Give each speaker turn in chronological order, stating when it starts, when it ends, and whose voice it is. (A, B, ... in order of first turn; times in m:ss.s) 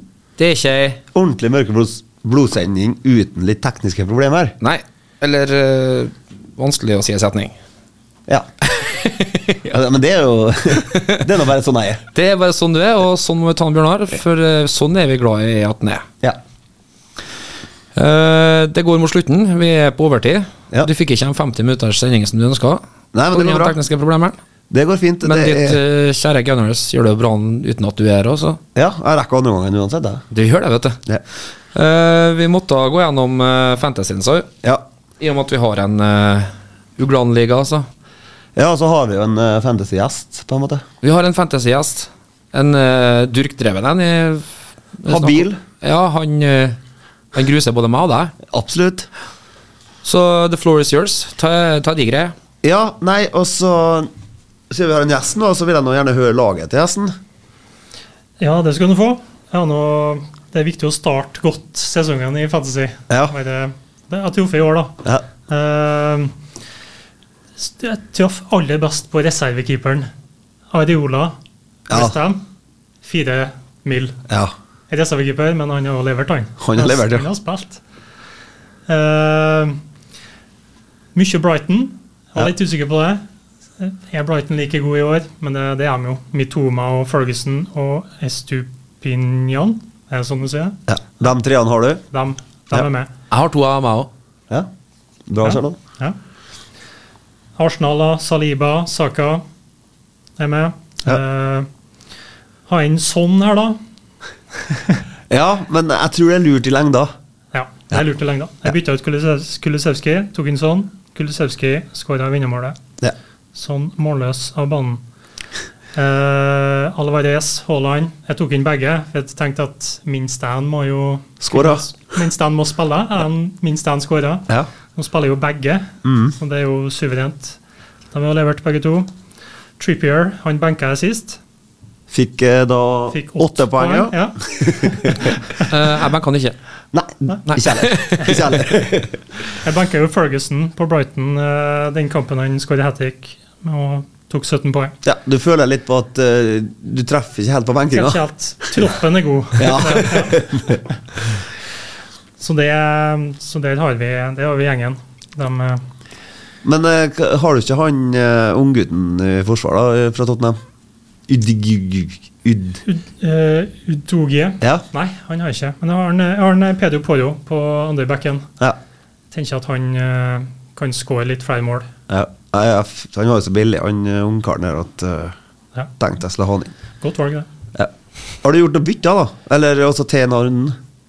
0:00.4-0:01.0 A
0:01.1-0:04.6 B
0:04.6-0:07.5 A
0:08.6-0:09.6 A
0:09.6-0:12.0 B
0:10.8-0:11.2 A
0:12.1-0:16.0 A
0:18.0-0:22.8 A
0:23.1-0:23.8 B
0:23.3-0:24.4 A
0:24.7-0:25.8 B
0:25.2-0:28.6 A
0:28.7-0:30.2 B
0:30.3-0:31.0 A
0:31.7-0:34.5 A
0:35.2-0:37.9 A
0:38.6-0:40.8 B
0:41.0-0:44.5 A
0:45.0-0:46.8 A
0:45.1-0:45.6 B
0:47.3-0:48.3 A
0:48.5-0:49.1 B
0:50.0-0:52.3 A
0:52.6-0:54.1 B
0:54.7-0:57.1 B
0:58.4-1:05.0 C
1:05.5-1:06.3 C
1:07.6-1:10.1 C
1:10.7-1:11.4 C
1:11.9-1:12.2 B
1:11.9-1:12.4 C
1:13.0-1:14.2 C
1:14.9-1:17.8 C
1:16.6-1:17.2 B
1:18.9-1:19.8 C
1:21.1-1:23.2 C
1:23.8-1:30.8 C
1:30.9-1:32.0 B
1:32.1-1:33.1 C
1:33.3-1:34.1 A
1:35.3-1:35.8 B
1:35.4-1:36.2 C
1:37.6-1:39.4 C
1:40.4-1:41.7 C
1:42.7-1:43.8 C
1:44.7-1:45.0 C
1:45.3-1:47.1 B
1:47.5-1:52.8 C
1:53.5-1:55.0 C
1:55.9-2:07.6 C
2:01.4-2:01.8 B
2:06.0-2:06.3 B
2:08.1-2:09.1 C
2:09.8-2:11.4 C
2:12.1-2:15.3 B
2:13.1-2:15.7 C
2:15.7-2:16.6 A
2:16.9-2:19.2 B
2:17.5-2:18.7 A
2:19.6-2:24.9 C
2:25.0-2:28.2 B
2:27.9-2:30.4 C
2:29.6-2:30.8 B
2:32.4-2:35.8 C
2:36.6-2:40.6 B
2:41.3-2:42.8 B
2:42.8-2:48.5 C
2:49.3-2:51.9 C
2:52.1-2:55.3 B
2:56.0-2:56.7 B
2:57.0-2:57.5 C
2:58.4-3:00.8 B